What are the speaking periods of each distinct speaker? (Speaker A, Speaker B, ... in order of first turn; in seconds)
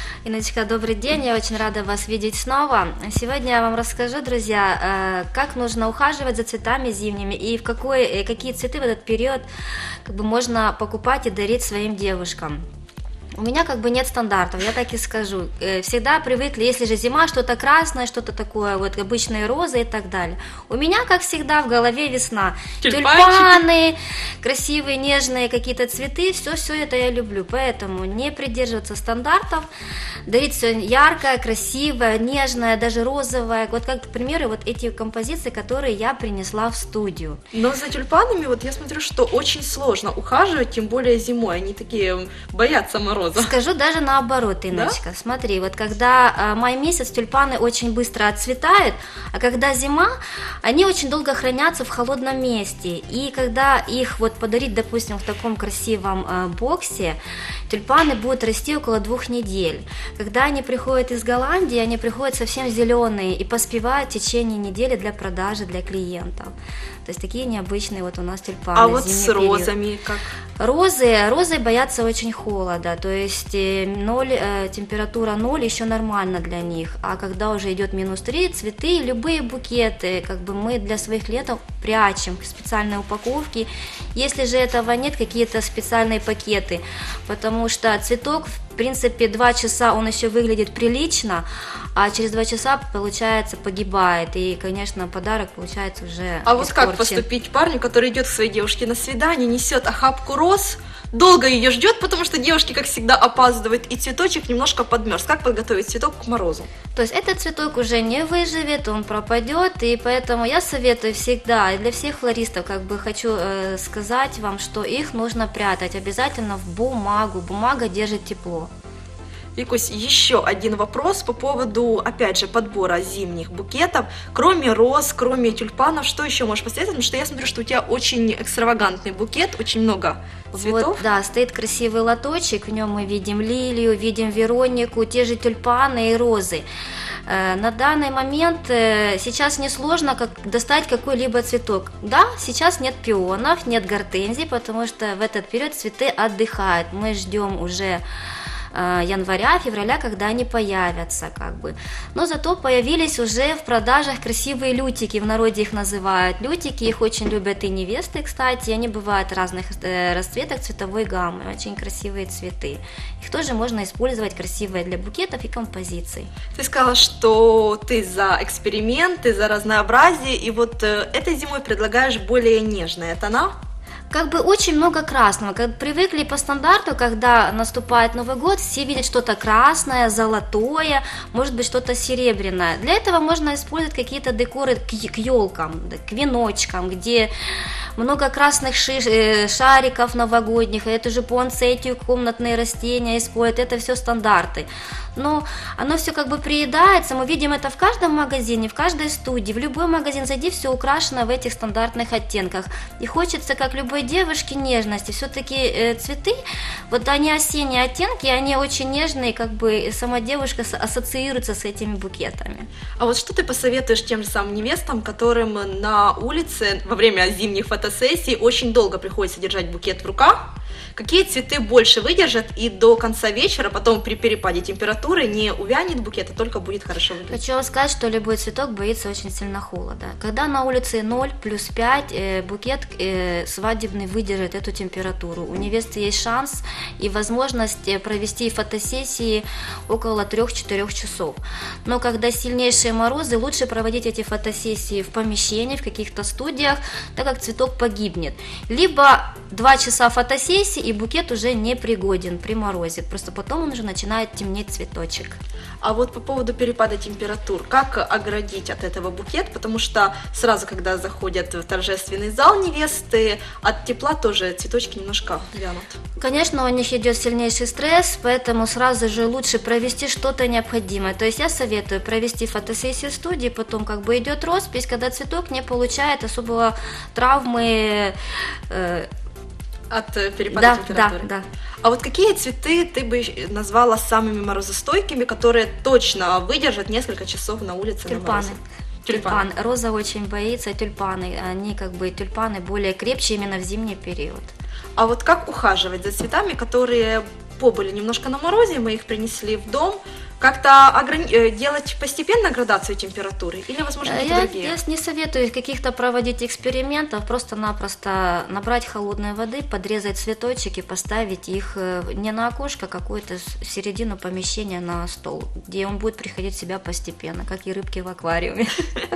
Speaker A: 0.3-9.5, 10.1-12.6, 13.4-29.7, 30.3-37.4, 43.4-69.7, 70.6-97.2, 107.0-118.7, 130.5-136.6, 137.3-148.0, 148.7-166.3, 174.1-187.3, 188.0-206.4, 206.9-212.7, 227.3-255.4, 266.2-278.1, 278.7-279.1, 280.5-281.4, 288.1-294.5, 304.0-318.9
Speaker B: 22.8-23.6, 37.5-43.5, 44.7-45.0, 68.8-70.3, 96.5-106.7, 119.6-131.0, 166.6-173.5, 213.0-227.4, 255.8-266.0, 279.9-281.3, 281.8-289.5, 295.0-304.8